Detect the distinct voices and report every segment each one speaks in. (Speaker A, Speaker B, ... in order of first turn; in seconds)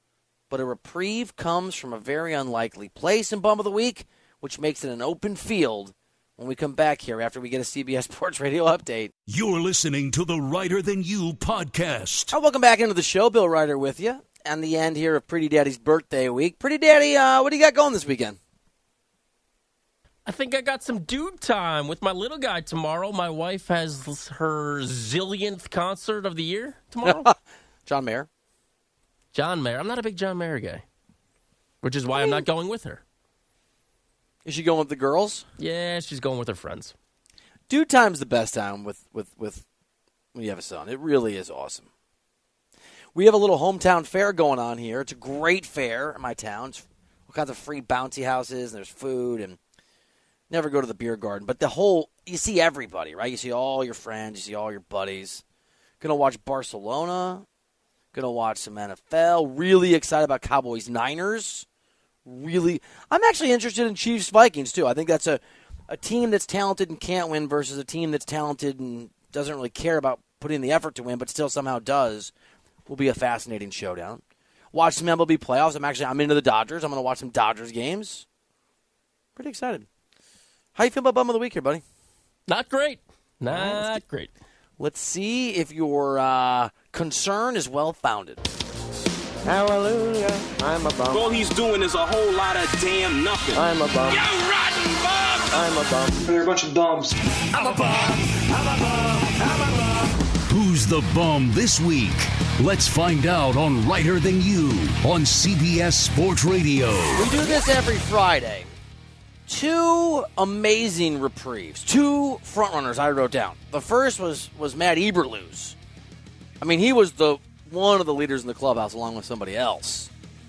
Speaker A: 0.5-9.1, 12.3-18.4, 27.0-27.4, 27.9-28.3, 32.1-32.5, 34.5-35.4, 37.7-39.6, 40.3-41.9, 43.1-49.6, 50.5-55.4, 56.0-57.5, 58.1-61.7, 62.3-72.3, 72.9-74.2, 74.7-78.2, 79.4-79.9, 80.8-81.8, 83.5-84.0, 84.8-88.4, 107.1-108.7, 109.5-115.8, 116.6-120.1
Speaker B: 9.3-12.3, 100.5-107.5
Speaker C: 20.3-27.3, 29.3-30.8, 31.8-33.0, 35.6-36.9, 82.5-84.3
Speaker D: 89.5-91.5, 93.5-94.3, 95.5-96.3
Speaker E: 91.1-95.5, 96.3-99.8